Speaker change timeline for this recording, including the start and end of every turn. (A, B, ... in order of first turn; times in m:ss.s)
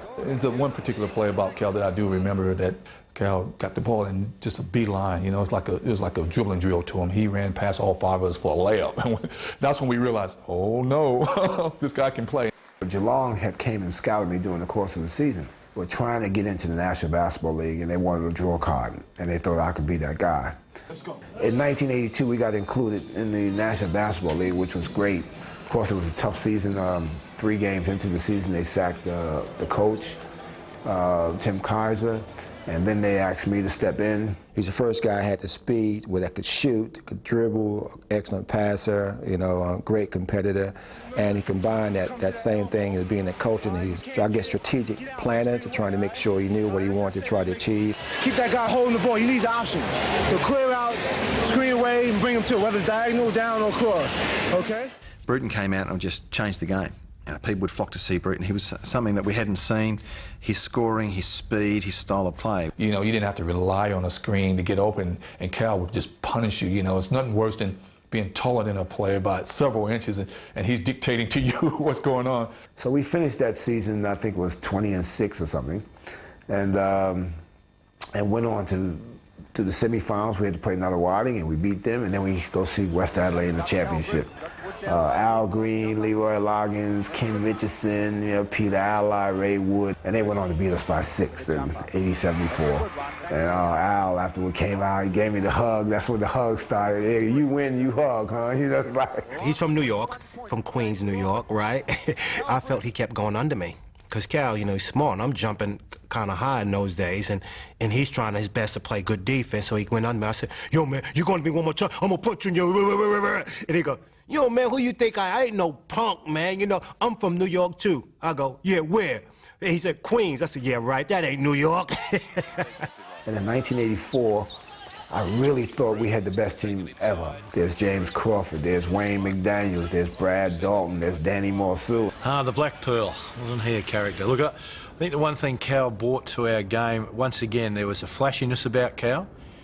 0:00.2-0:12.5 A
0:12.8-0:20.6 B
0:21.4-0:30.2 B
0:30.8-0:34.4 B
0:34.5-0:48.0 C
0:48.1-0:54.9 D
0:55.2-1:02.7 E
1:02.8-1:12.5 A
1:12.8-1:15.8 B
1:16.5-1:17.4 B
1:18.1-1:39.3 B
1:39.3-2:02.7 F
2:03.2-2:04.5 B
2:05.1-2:12.1 B
2:12.2-2:19.3 G